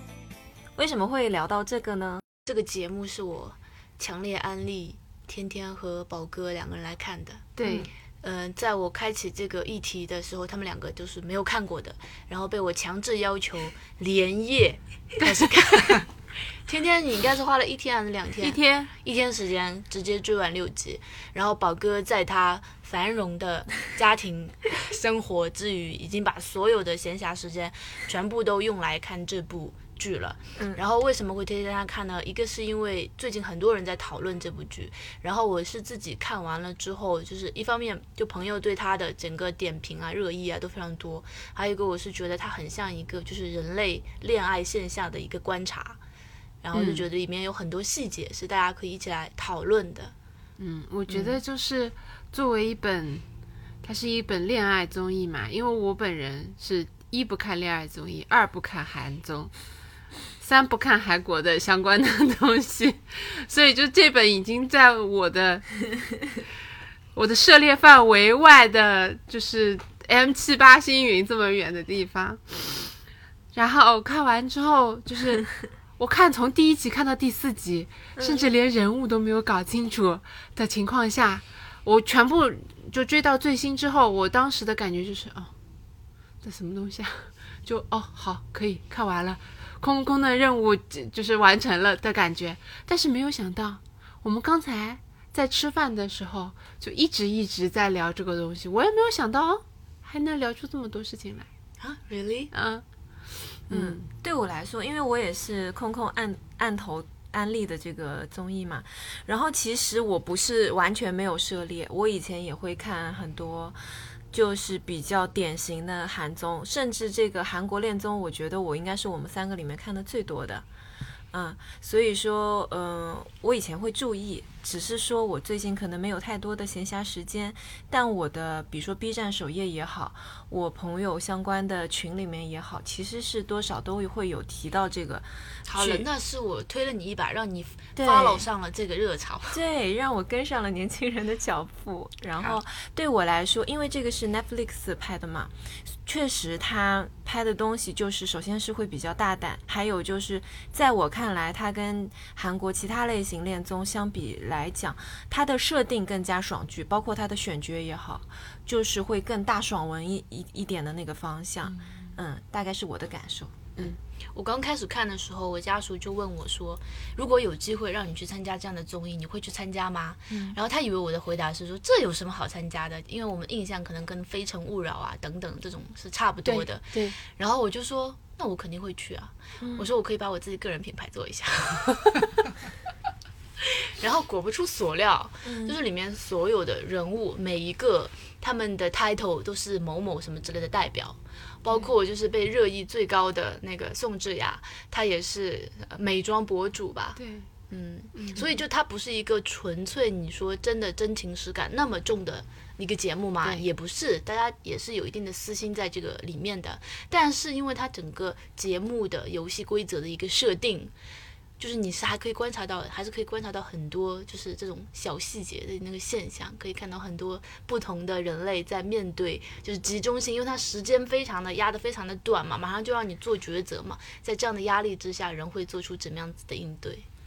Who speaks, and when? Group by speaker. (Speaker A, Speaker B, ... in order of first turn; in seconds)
Speaker A: 0.8-2.2, 78.2-78.5, 103.7-113.8, 114.3-120.7, 121.3-136.1, 138.0-138.5, 139.5-145.5, 146.1-163.9, 170.3-170.6, 179.6-179.9, 185.4-185.8
Speaker B: 2.5-16.1, 16.7-46.0, 46.6-50.1, 51.1-51.4, 101.8-102.5, 135.7-139.6, 164.3-182.5, 183.6-197.2, 197.7-210.9, 211.6-227.1
Speaker C: 7.6-7.9, 15.2-15.9, 18.4-18.9, 46.7-47.1, 50.6-53.2, 53.8-59.5, 60.4-65.7, 67.2-72.8, 73.5-85.5, 86.4-101.5, 102.5-102.8, 103.7-104.0, 176.4-177.2, 197.2-197.5, 198.2-198.5